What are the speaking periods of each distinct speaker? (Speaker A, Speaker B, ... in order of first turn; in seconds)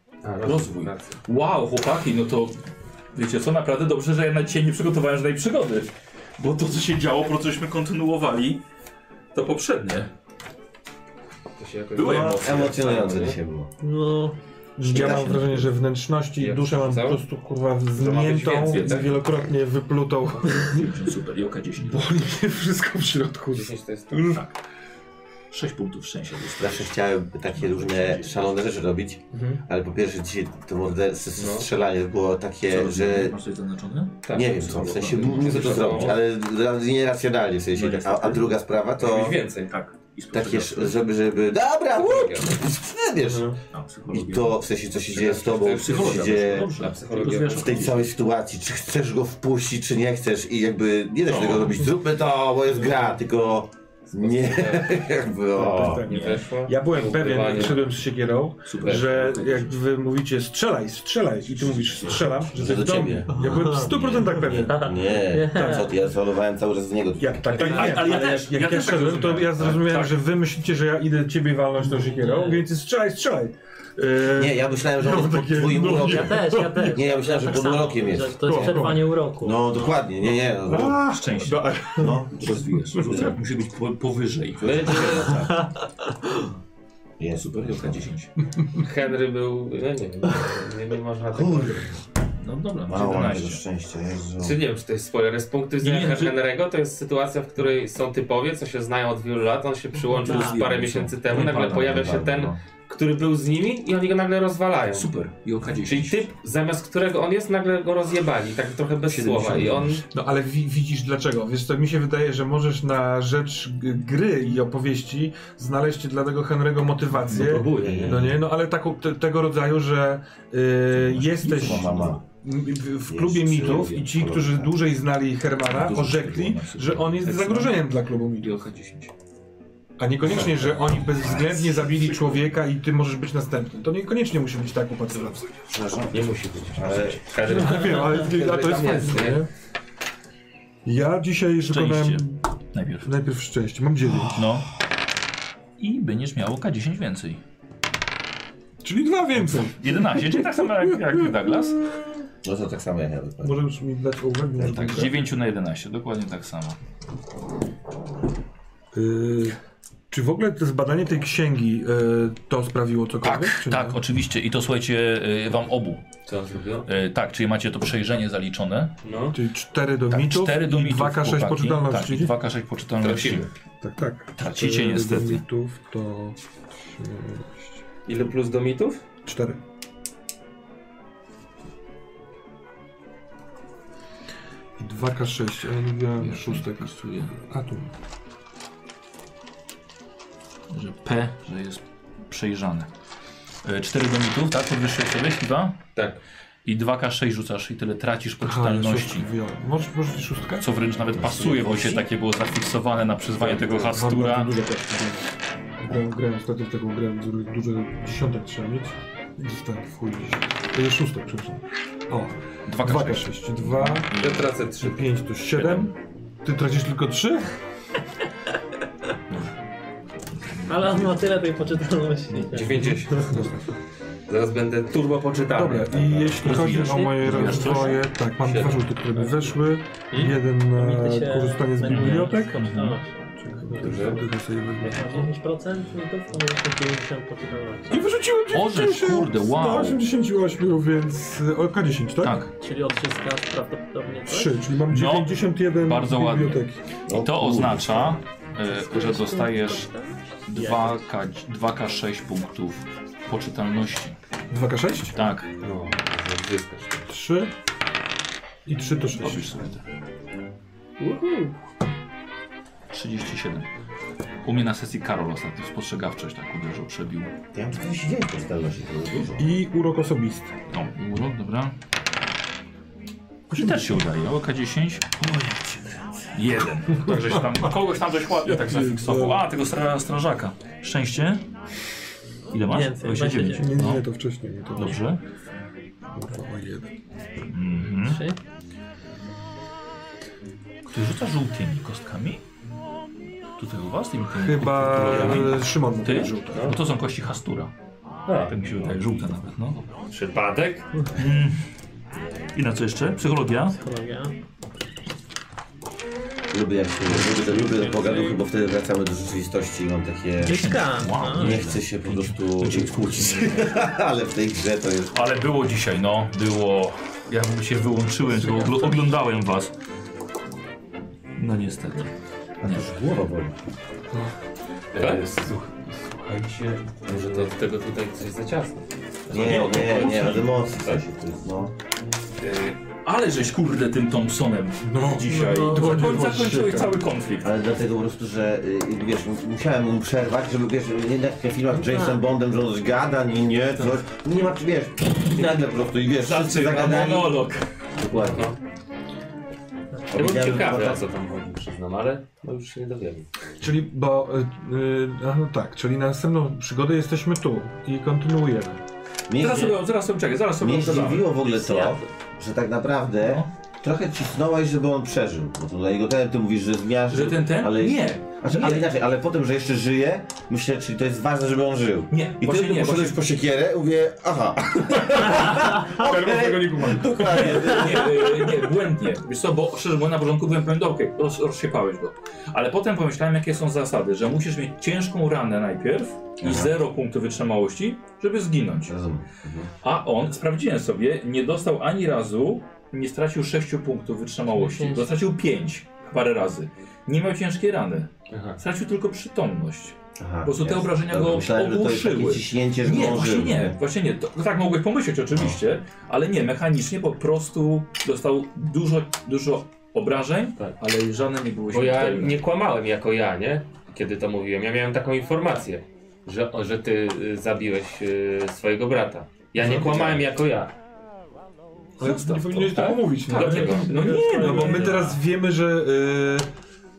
Speaker A: 0.2-1.2, 11.6-13.4, 14.9-15.7, 16.4-17.2, 17.9-19.2, 23.5-24.4, 29.3-29.6, 31.4-31.7, 34.2-36.2, 39.0-39.7, 41.9-42.5, 43.2-43.6, 45.1-47.9, 54.1-55.0, 56.1-57.9, 58.8-59.1, 67.5-68.5, 84.6-85.5, 88.8-92.0, 94.4-105.1, 105.8-110.0, 117.3-118.2, 136.1-139.4, 166.2-166.9, 169.0-169.4, 173.0-173.5, 178.1-179.0, 203.4-203.9, 214.2-215.9, 222.5-223.5, 224.3-226.6, 228.4-229.6, 233.8-234.2, 255.2-257.1, 295.0-295.6, 296.4-296.8, 298.3-299.0, 300.1-301.0, 324.9-325.3, 326.6-331.0, 332.4-332.7, 348.2-348.6, 350.1-353.3, 398.3-398.6, 411.7-420.7, 422.7-425.1
Speaker B: 0.4-2.6, 3.1-8.6, 9.3-10.1, 11.9-12.8, 18.7-19.1, 20.4-22.1, 25.5-26.9, 27.5-28.5, 32.7-36.2, 37.7-38.5, 39.2-41.0, 43.7-44.6, 45.4-48.0, 51.2-51.9, 56.1-56.4, 58.7-59.7, 61.6-62.2, 63.6-64.6, 67.5-70.2, 81.1-85.4, 87.3-88.3, 92.4-93.6, 95.8-96.4, 100.2-102.2, 104.9-106.2, 109.1-109.9, 117.2-117.5, 120.9-122.2, 125.6-127.8, 128.4-129.1, 131.2-132.4, 135.1-135.6, 141.6-143.1, 144.3-144.7, 145.8-147.4, 149.3-151.8, 154.8-156.8, 163.2-166.0, 166.8-168.9, 170.1-173.5, 174.4-175.4, 186.2-187.3, 190.7-192.9, 193.6-195.8, 196.6-199.3, 200.6-204.5, 212.7-214.5, 220.3-221.3, 226.4-228.0, 231.8-233.0, 238.5-240.0, 242.2-242.5, 244.9-249.9, 250.5-254.2, 255.2-255.5, 259.1-259.8, 262.9-263.7, 264.4-267.3, 270.7-271.7, 273.5-275.2, 276.3-281.4, 282.5-284.0, 284.7-285.2, 287.5-288.2, 290.9-292.4, 293.6-297.7, 298.4-299.8, 301.1-301.6, 302.5-303.8, 310.4-313.8, 315.1-319.7, 321.4-322.9, 324.9-325.6, 329.3-330.5, 332.5-337.5, 346.2-347.6, 359.4-361.3, 363.2-363.5, 367.1-368.9, 372.1-373.2, 377.3-388.9, 389.8-412.4, 422.0-425.2
Speaker C: 12.0-13.7, 14.8-15.5, 26.6-33.4, 34.3-39.4, 40.3-43.5, 44.1-46.7, 47.5-56.1, 62.4-63.4, 64.6-67.4, 74.3-78.7, 79.4-81.0, 82.0-83.3, 84.7-85.3, 87.2-88.1, 91.3-91.9, 92.9-94.6, 101.3-102.6, 117.8-118.4, 121.5-122.2, 123.1-124.7, 135.7-137.3, 152.4-153.6, 154.6-155.1, 201.1-202.1, 247.1-248.2, 267.5-269.6, 306.5-310.7, 311.2-315.1, 322.6-323.5, 329.3-331.7, 337.4-347.4, 347.9-348.5, 350.1-351.0, 359.3-359.8, 360.6-378.5, 386.4-386.7, 388.9-389.7, 400.2-403.8
Speaker D: 13.8-14.3, 63.3-65.9, 71.8-72.6, 76.0-79.6, 100.2-100.6, 220.7-223.4, 227.2-228.0, 230.1-234.2, 234.8-238.1, 242.5-244.6, 248.7-251.0, 261.0-261.5, 282.6-283.7, 288.0-288.4, 303.7-304.4, 307.1-308.4, 310.4-311.6, 335.5-336.0, 341.9-342.1, 394.5-395.1
Speaker E: 14.8-21.0, 21.8-24.5, 55.5-65.0, 65.5-65.9, 67.2-77.0, 78.4-79.1, 80.6-82.3, 82.9-83.2, 110.1-128.6, 130.0-135.4, 137.4-139.5, 140.8-142.4, 143.0-144.4, 148.8-152.0, 153.4-155.2, 158.9-159.6, 160.1-164.0, 169.3-172.3, 173.8-177.8, 179.2-179.6, 184.8-187.9, 198.4-200.7, 203.9-214.1, 214.8-215.9, 216.4-217.4, 222.8-223.5, 225.5-232.6, 233.4-235.3, 237.9-242.4, 244.3-246.8, 254.5-255.2, 257.1-257.5, 258.6-259.6, 269.4-270.5, 273.5-273.9, 275.3-275.6, 278.4-279.4, 283.6-285.0, 286.1-286.9, 294.3-296.7, 318.2-319.1, 325.3-326.3, 334.8-337.0, 353.6-358.8, 375.9-377.6, 419.6-420.2, 422.0-426.5